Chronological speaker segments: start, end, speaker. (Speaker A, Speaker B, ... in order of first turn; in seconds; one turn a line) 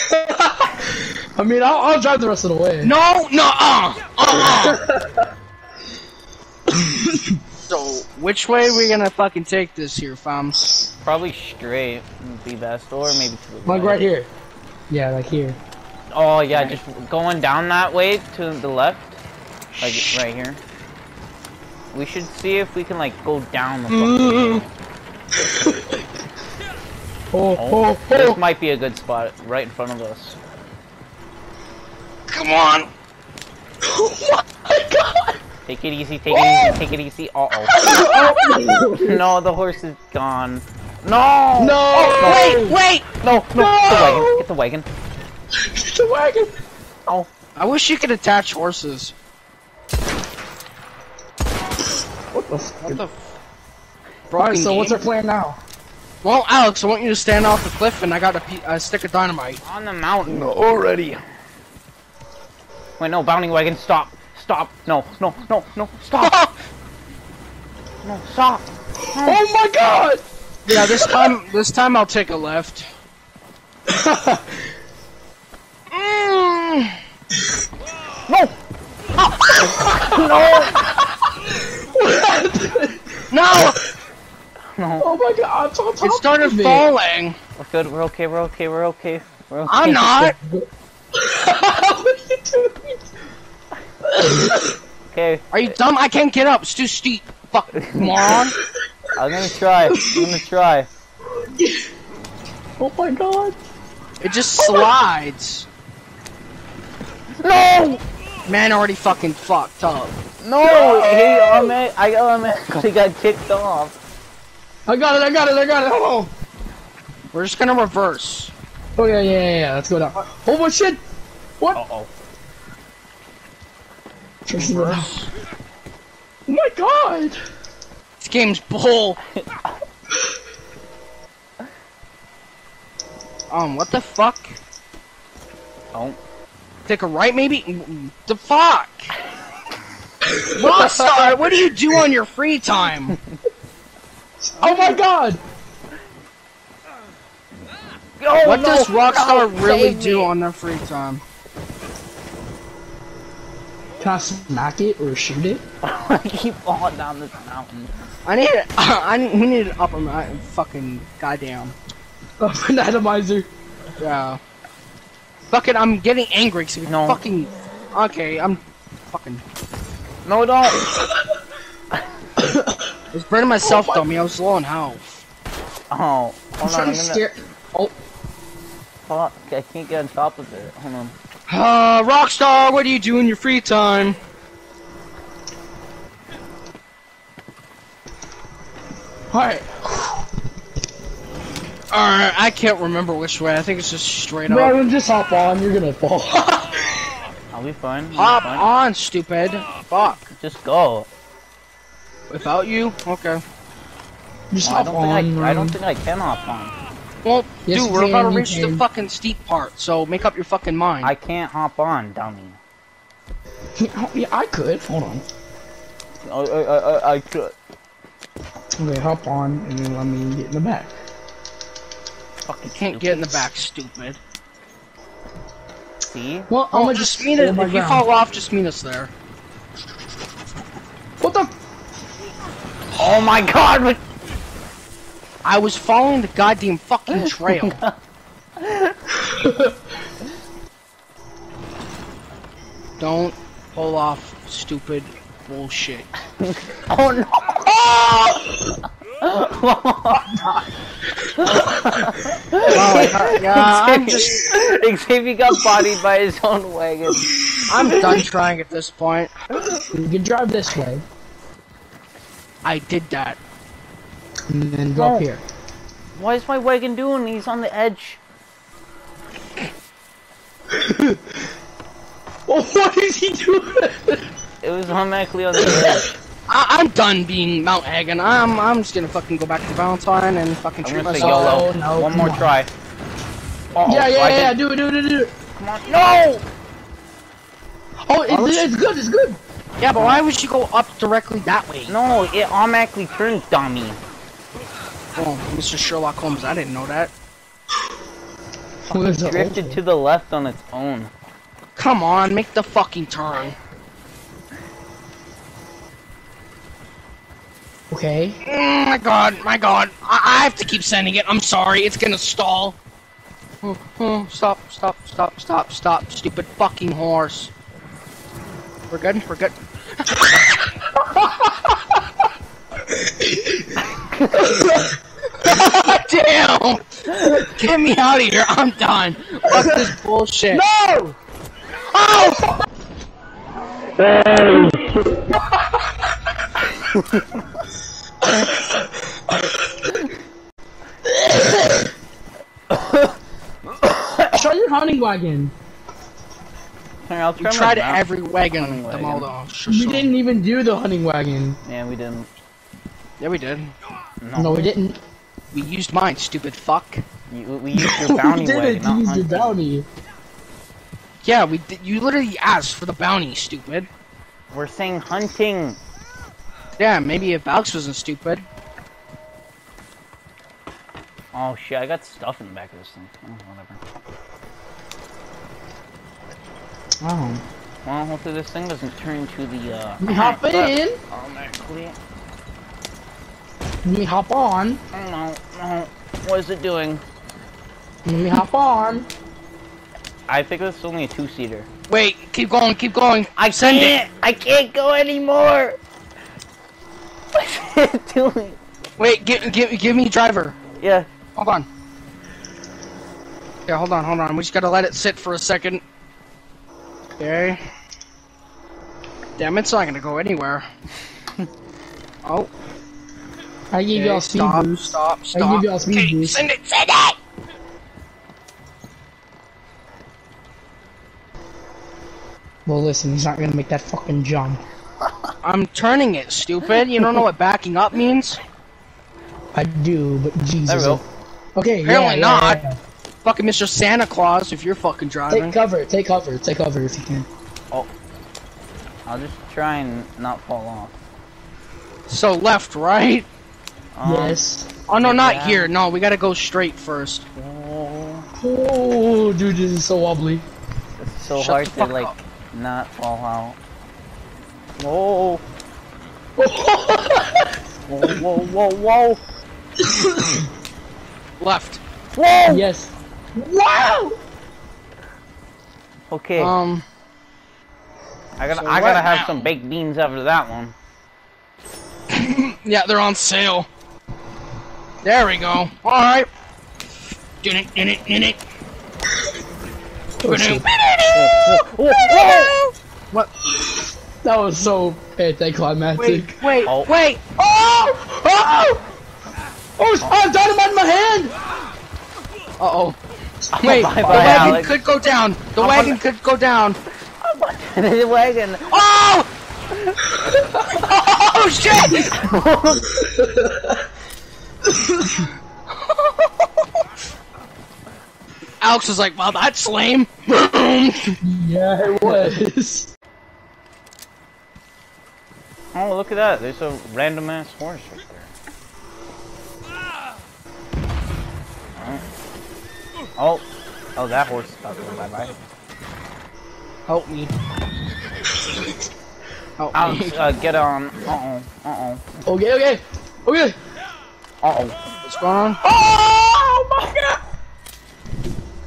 Speaker A: 0.1-2.9
Speaker B: 2.8-4.8
Speaker A: 4.3-5.2
Speaker A: 6.7-7.4
Speaker B: 7.7-10.6
Speaker C: 11.0-14.1
Speaker A: 13.7-14.3
Speaker A: 14.9-15.6
Speaker C: 16.1-19.2
Speaker C: 19.8-20.6
Speaker C: 21.9-24.7
Speaker B: 23.9-24.7
Speaker A: 25.5-25.8
Speaker A: 27.3-28.4
Speaker C: 27.6-30.4
Speaker B: 32.3-32.9
Speaker A: 33.8-35.4
Speaker C: 35.7-37.9
Speaker A: 36.3-36.8
Speaker A: 37.7-39.3
Speaker B: 38.0-38.5
Speaker C: 39.0-44.9
Speaker A: 41.6-42.6
Speaker B: 41.9-43.1
Speaker A: 43.5-44.5
Speaker A: 45.6-46.5
Speaker B: 47.6-49.1
Speaker A: 52.3-53.0
Speaker B: 52.8-53.4
Speaker B: 54.3-55.0
Speaker A: 54.4-55.6
Speaker B: 56.2-59.6
Speaker C: 59.6-61.2
Speaker A: 60.4-60.7
Speaker C: 63.0-66.4
Speaker B: 66.2-66.6
Speaker C: 68.0-69.4
Speaker A: 69.2-70.2
Speaker B: 70.7-72.9
Speaker A: 70.7-71.3
Speaker A: 73.9-74.5
Speaker B: 75.9-77.0
Speaker C: 78.3-78.5
Speaker A: 79.6-83.2
Speaker C: 79.8-80.8
Speaker B: 83.3-83.8
Speaker C: 84.8-85.2
Speaker A: 85.0-86.9
Speaker B: 86.0-87.4
Speaker C: 87.6-90.1
Speaker B: 89.7-90.4
Speaker A: 89.9-90.7
Speaker A: 91.2-93.0
Speaker A: 94.1-94.8
Speaker C: 95.1-95.7
Speaker B: 95.5-98.6
Speaker C: 97.8-98.1
Speaker C: 99.2-100.9
Speaker A: 99.9-100.3
Speaker A: 101.6-101.8
Speaker A: 102.8-103.6
Speaker B: 104.2-105.7
Speaker A: 104.6-104.9
Speaker C: 107.4-108.0
Speaker B: 108.5-110.1
Speaker C: 110.4-114.0
Speaker A: 110.7-111.7
Speaker A: 114.9-116.3
Speaker B: 117.3-118.5
Speaker A: 119.0-121.0
Speaker C: 121.7-122.1
Speaker A: 124.5-125.1
Speaker B: 124.5-125.3
Speaker A: 126.5-127.4
Speaker B: 128.2-129.2
Speaker B: 133.5-134.6
Speaker C: 135.9-136.2
Speaker B: 136.9-139.1
Speaker A: 140.3-140.9
Speaker B: 140.5-143.2
Speaker C: 143.1-143.4
Speaker A: 144.4-145.4
Speaker C: 144.6-145.0
Speaker C: 148.2-150.3
Speaker B: 148.4-151.2
Speaker A: 154.0-155.6
Speaker C: 155.8-157.9
Speaker B: 158.2-161.8
Speaker A: 162.4-163.5
Speaker B: 164.0-164.4
Speaker B: 165.5-169.4
Speaker C: 166.9-167.2
Speaker C: 170.2-170.8
Speaker A: 170.8-171.2
Speaker A: 172.4-172.9
Speaker B: 173.1-175.2
Speaker A: 173.6-174.0
Speaker C: 175.9-177.2
Speaker A: 176.6-177.9
Speaker C: 179.1-181.2
Speaker B: 181.5-184.2
Speaker A: 189.3-190.2
Speaker B: 191.9-194.8
Speaker A: 194.5-196.9
Speaker C: 197.5-198.7
Speaker B: 198.1-200.3
Speaker C: 200.3-201.1
Speaker B: 202.3-203.4
Speaker A: 204.5-205.8
Speaker C: 204.6-206.7
Speaker B: 207.2-211.1
Speaker A: 207.7-208.8
Speaker C: 211.0-212.6
Speaker A: 213.8-215.2
Speaker C: 216.2-217.5
Speaker A: 218.8-220.9
Speaker C: 222.5-223.5
Speaker B: 222.7-224.2
Speaker C: 226.1-226.5
Speaker A: 226.5-228.1
Speaker B: 226.7-229.1
Speaker A: 231.2-231.5
Speaker C: 233.0-234.0
Speaker B: 235.4-237.8
Speaker C: 237.2-238.0
Speaker C: 238.6-238.9
Speaker A: 239.3-239.7
Speaker B: 243.0-246.1
Speaker C: 246.4-248.6
Speaker C: 249.2-250.4
Speaker C: 251.4-258.0
Speaker B: 252.7-254.3
Speaker B: 257.7-259.3
Speaker A: 259.9-261.0
Speaker B: 262.6-263.4
Speaker A: 264.5-265.4
Speaker C: 265.0-265.3
Speaker C: 266.1-268.2
Speaker A: 270.8-271.2
Speaker A: 272.5-274.3
Speaker C: 274.6-276.1
Speaker A: 275.6-276.0
Speaker B: 276.5-281.6
Speaker C: 280.8-282.7
Speaker A: 281.2-282.5
Speaker C: 283.7-284.6
Speaker A: 283.9-285.3
Speaker C: 285.6-286.4
Speaker A: 288.1-289.4
Speaker B: 288.3-288.7
Speaker B: 289.8-292.0
Speaker C: 290.0-290.2
Speaker C: 291.9-294.0
Speaker B: 295.2-297.1
Speaker A: 298.9-299.8
Speaker C: 298.9-301.1
Speaker B: 301.8-303.6
Speaker A: 307.9-308.4
Speaker B: 308.4-312.8
Speaker B: 313.6-317.5
Speaker B: 318.9-320.4
Speaker A: 321.0-321.9
Speaker A: 323.0-323.8
Speaker C: 324.0-324.7
Speaker A: 324.4-324.8
Speaker B: 325.4-330.6
Speaker A: 329.6-329.9
Speaker A: 330.5-331.2
Speaker B: 331.9-332.5
Speaker C: 336.9-337.3
Speaker A: 341.1-341.9
Speaker C: 342.7-343.1
Speaker C: 343.8-344.4
Speaker A: 344.3-345.5
Speaker C: 347.0-348.1
Speaker B: 347.4-350.1
Speaker C: 348.6-349.3
Speaker A: 349.7-351.6
Speaker C: 351.6-352.3
Speaker B: 353.2-353.7
Speaker C: 354.2-354.7
Speaker A: 354.4-355.0
Speaker B: 355.5-357.0
Speaker C: 357.3-359.6
Speaker A: 357.8-359.9
Speaker B: 361.2-363.9
Speaker C: 364.5-365.8
Speaker B: 366.8-368.4
Speaker C: 371.3-373.8
Speaker A: 377.0-377.4
Speaker C: 377.9-382.0
Speaker A: 380.0-381.0
Speaker A: 383.8-384.8
Speaker C: 384.9-387.0
Speaker A: 388.1-389.1
Speaker C: 390.3-391.7
Speaker B: 391.9-394.0
Speaker C: 393.4-395.8
Speaker C: 397.3-398.6
Speaker B: 399.0-400.6
Speaker C: 400.8-401.1
Speaker B: 401.4-401.7
Speaker B: 403.7-405.8
Speaker B: 407.2-407.6
Speaker B: 409.4-410.6
Speaker B: 412.2-412.5
Speaker A: 413.7-416.5
Speaker B: 413.9-417.2
Speaker A: 422.7-424.6
Speaker B: 425.4-428.4
Speaker A: 429.5-431.0
Speaker C: 430.7-431.0
Speaker A: 431.6-432.8
Speaker B: 431.8-432.6
Speaker B: 433.2-435.6
Speaker A: 435.3-437.3
Speaker C: 439.1-440.9
Speaker B: 442.1-443.3
Speaker C: 443.9-444.4
Speaker A: 444.0-444.7
Speaker B: 444.9-447.3
Speaker C: 445.0-445.7
Speaker C: 447.4-448.3
Speaker A: 448.4-450.5
Speaker C: 451.0-453.6
Speaker B: 451.4-452.1
Speaker C: 454.8-455.4
Speaker A: 456.4-457.5
Speaker C: 457.9-459.2
Speaker A: 459.9-460.4
Speaker B: 461.4-461.8
Speaker C: 462.2-462.7
Speaker A: 462.5-464.2
Speaker C: 466.1-466.6
Speaker B: 466.4-466.9
Speaker C: 468.4-470.7
Speaker B: 468.5-469.5
Speaker B: 472.1-473.7
Speaker B: 475.0-476.3
Speaker B: 477.4-478.4
Speaker A: 480.2-480.7
Speaker B: 480.3-483.3
Speaker C: 481.1-482.6
Speaker A: 483.5-486.4
Speaker B: 486.0-487.2
Speaker C: 486.7-486.9
Speaker A: 487.4-488.8
Speaker A: 489.8-491.3
Speaker B: 492.6-493.0
Speaker C: 493.6-494.8
Speaker B: 493.6-496.8
Speaker A: 494.1-494.6
Speaker C: 495.6-496.0
Speaker C: 497.2-498.8
Speaker B: 498.7-499.3
Speaker B: 500.8-502.1
Speaker C: 501.9-502.9
Speaker A: 503.0-503.8
Speaker A: 504.7-505.2
Speaker B: 505.8-506.5
Speaker B: 508.6-511.1
Speaker A: 511.2-512.9
Speaker C: 512.0-512.3
Speaker C: 515.7-518.3
Speaker C: 521.8-522.0
Speaker C: 523.2-523.4
Speaker C: 524.0-525.3
Speaker B: 526.9-527.3
Speaker B: 529.6-530.4
Speaker C: 529.7-532.0
Speaker A: 532.2-533.6
Speaker C: 534.4-534.8
Speaker B: 535.0-535.6
Speaker A: 535.6-537.2